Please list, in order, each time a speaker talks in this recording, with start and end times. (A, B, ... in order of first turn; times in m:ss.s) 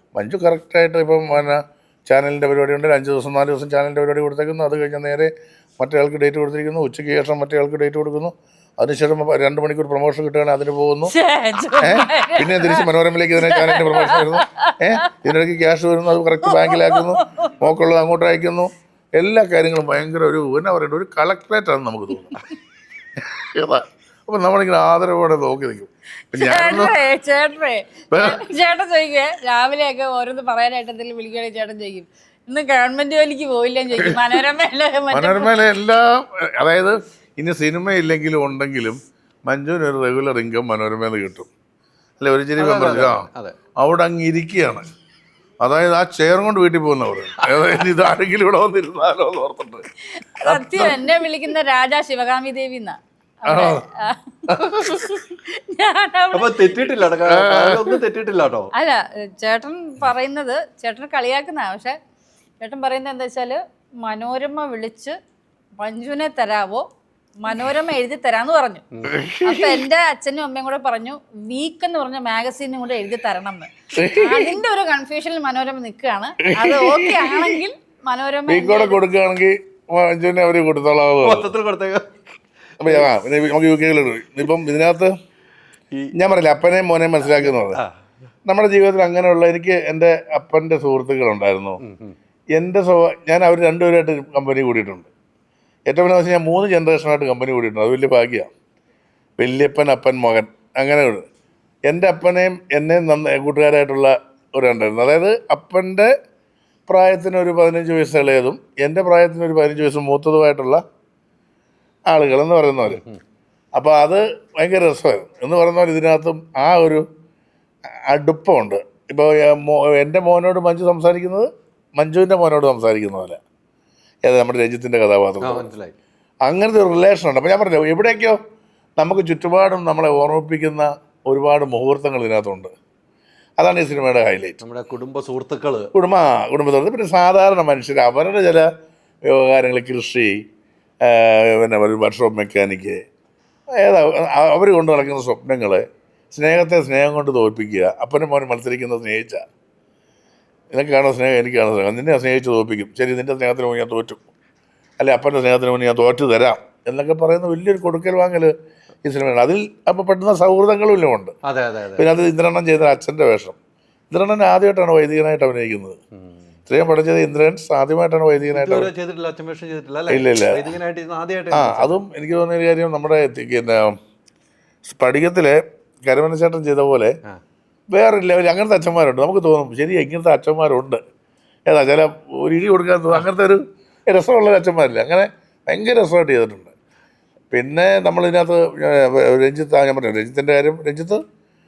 0:00.2-0:11.1 A
0:11.1-0:12.9 B
0:11.8-0:22.4 A
0:13.4-0:14.7 B
0:16.4-0:17.5 B
0:23.2-0:27.0 A
0:26.3-0:35.5 B
0:28.1-0:28.4 A
0:34.0-0:34.4 A
0:35.1-0:41.5 A
0:42.2-0:44.8 A
0:42.6-0:43.6 C
0:45.6-0:49.8 A
0:50.2-0:56.6 B
0:50.4-0:51.1 A
0:53.5-0:53.8 A
0:54.5-0:55.0 A
0:56.3-0:58.7 C
0:57.3-0:57.9 A
0:58.8-1:02.0 B
1:02.6-1:05.2 B
1:05.8-1:06.9 B
1:07.4-1:08.8 B
1:09.1-1:09.8 A
1:09.4-1:19.0 B
1:14.0-1:14.6 A
1:16.5-1:17.6 A
1:18.5-1:21.5 A
1:21.2-1:22.1 C
1:22.8-1:25.1 A
1:22.8-1:23.1 C
1:26.2-1:27.8 A
1:27.2-1:27.9 C
1:28.5-1:31.8 A
1:31.8-1:32.2 C
1:32.6-1:35.1 A
1:35.9-1:38.5 A
1:39.4-1:41.3 A
1:41.9-1:46.1 A
1:46.9-1:50.8 A
1:52.1-1:53.0 A
1:52.9-1:53.2 C
1:53.8-1:57.0 A
1:58.1-2:03.4 A
2:04.3-2:05.7 A
2:05.4-2:05.9 C
2:06.4-2:08.4 A
2:09.0-2:12.7 A
2:13.6-2:14.6 A
2:14.6-2:15.9 C
2:16.0-2:18.7 A
2:19.3-2:20.4 A
2:21.0-2:23.0 A
2:23.8-2:29.4 A
2:30.7-2:34.2 A
2:35.0-2:38.5 A
2:39.0-2:41.4 A
2:41.5-2:42.1 C
2:42.0-2:43.6 A
2:44.1-2:46.0 A
2:46.7-2:48.9 A
2:48.5-2:52.0 C
2:50.1-2:50.7 A
2:51.5-2:54.0 A
2:54.9-2:57.1 A
2:57.9-3:01.0 A
3:01.7-3:06.7 A
3:07.5-3:11.2 A